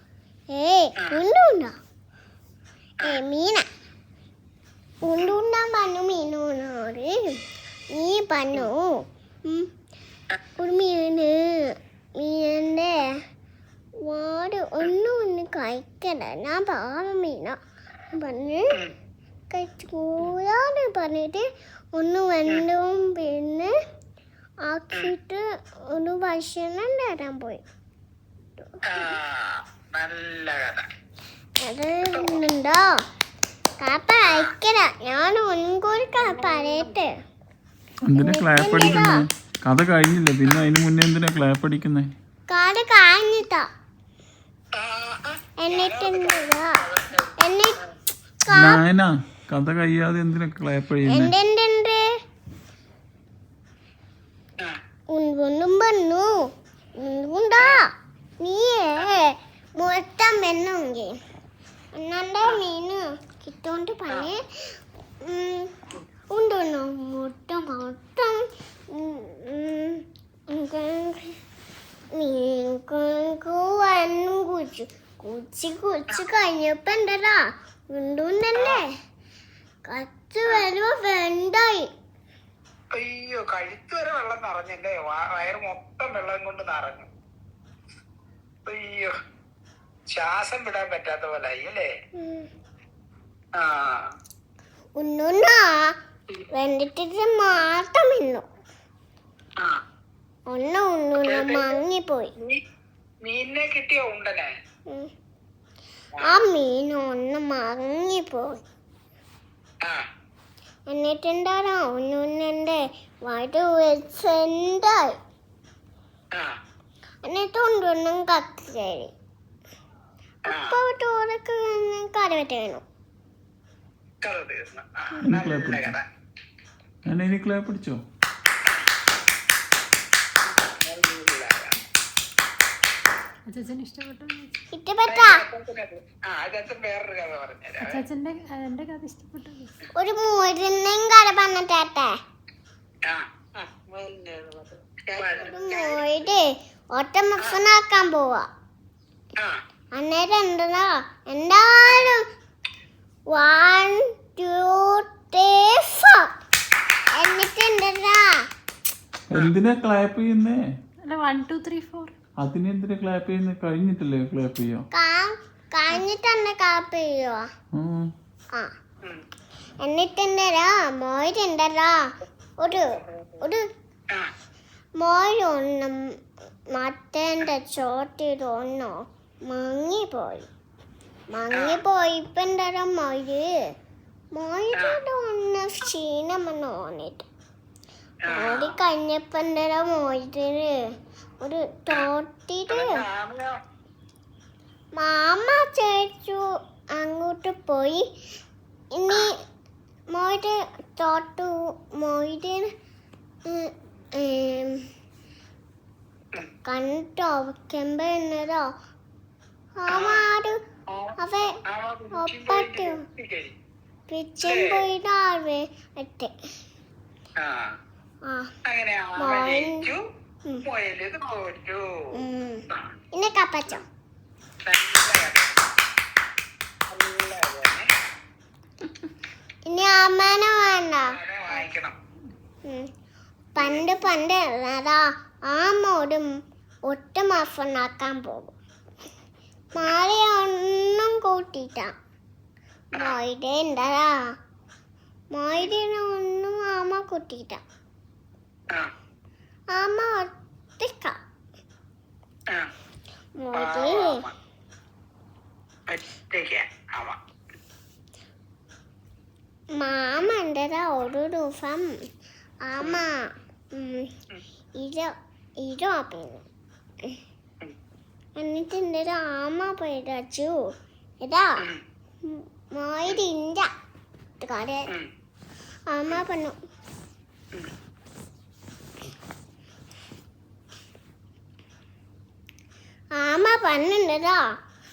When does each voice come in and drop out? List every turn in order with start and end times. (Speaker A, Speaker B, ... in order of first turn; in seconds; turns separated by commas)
Speaker A: 0.5-1.7, Speaker A: 3.0-3.6, Speaker A: 5.0-7.4, Speaker A: 7.9-8.9, Speaker A: 10.6-13.0, Speaker A: 14.0-17.6, Speaker A: 18.1-18.7, Speaker A: 19.5-23.7, Speaker A: 24.6-27.6, Speaker A: 28.6-29.1, Speaker B: 28.9-30.9, Speaker A: 31.6-32.8, Speaker B: 32.0-32.4, Speaker A: 33.8-37.1, Speaker B: 34.3-34.5, Speaker C: 38.1-42.1, Speaker A: 38.1-39.2, Speaker A: 42.5-43.6, Speaker B: 44.8-47.9, Speaker A: 45.6-46.8, Speaker A: 47.4-47.8, Speaker A: 48.5-48.8, Speaker C: 48.5-51.3, Speaker A: 51.0-52.0, Speaker A: 55.1-56.5, Speaker A: 57.0-61.2, Speaker A: 61.9-64.4, Speaker A: 65.2-65.7, Speaker A: 66.3-71.4, Speaker A: 72.1-78.9, Speaker B: 78.6-78.8, Speaker A: 79.8-81.9, Speaker B: 82.9-87.1, Speaker B: 88.7-89.1, Speaker B: 90.1-91.9, Speaker A: 92.2-92.5, Speaker B: 93.6-94.1, Speaker A: 95.0-95.9, Speaker A: 96.5-98.4, Speaker A: 100.5-102.3, Speaker B: 101.2-101.8, Speaker B: 103.2-104.5, Speaker A: 106.2-108.6, Speaker A: 110.9-115.1, Speaker A: 117.2-119.1, Speaker A: 120.5-122.8, Speaker B: 120.5-120.8, Speaker B: 124.2-126.0, Speaker C: 125.2-126.0, Speaker C: 127.1-128.0, Speaker B: 130.7-131.8, Speaker D: 133.5-134.5, Speaker A: 134.7-135.4, Speaker B: 135.1-138.0, Speaker D: 137.8-139.7, Speaker A: 139.9-142.1, Speaker B: 145.1-146.0, Speaker A: 145.2-148.5, Speaker A: 149.9-152.2, Speaker A: 153.3-156.3, Speaker A: 157.1-158.4, Speaker C: 159.3-160.6, Speaker D: 161.0-162.1, Speaker C: 162.4-164.8, Speaker A: 164.9-167.5, Speaker C: 167.7-168.1, Speaker A: 169.8-172.0, Speaker A: 172.6-173.6, Speaker B: 173.1-173.4, Speaker A: 175.0-176.0, Speaker A: 176.7-180.5, Speaker A: 181.3-183.5, Speaker B: 181.5-181.8, Speaker A: 184.3-187.2, Speaker B: 188.3-188.7, Speaker A: 188.3-190.7, Speaker A: 191.4-193.0, Speaker B: 192.7-193.6, Speaker A: 194.9-198.0, Speaker A: 198.9-199.3, Speaker A: 200.1-202.7, Speaker A: 203.5-204.8, Speaker A: 206.6-208.7, Speaker A: 209.8-210.6, Speaker B: 209.9-210.2, Speaker B: 210.9-211.2, Speaker A: 211.2-211.6, Speaker B: 211.7-213.5, Speaker A: 212.2-213.0, Speaker A: 214.1-216.3, Speaker B: 214.4-214.8, Speaker B: 217.4-217.8, Speaker A: 218.2-218.5, Speaker B: 218.7-220.0, Speaker A: 219.2-219.8, Speaker B: 220.6-221.8, Speaker A: 222.1-222.6, Speaker A: 223.1-223.8, Speaker B: 224.7-225.7, Speaker B: 226.9-227.9, Speaker A: 229.7-231.2, Speaker B: 231.1-231.9, Speaker A: 232.6-232.9, Speaker A: 233.5-236.3, Speaker B: 233.6-233.8, Speaker A: 236.9-238.5, Speaker A: 239.7-241.9, Speaker A: 242.9-244.3, Speaker A: 245.3-247.6, Speaker A: 249.7-251.2, Speaker A: 253.4-254.2, Speaker B: 253.5-254.3, Speaker B: 255.9-257.2, Speaker A: 259.7-262.0, Speaker A: 262.6-264.1, Speaker A: 264.8-266.4, Speaker A: 268.4-271.6, Speaker A: 272.2-273.7, Speaker A: 274.4-274.9, Speaker A: 275.9-276.6, Speaker A: 283.1-284.6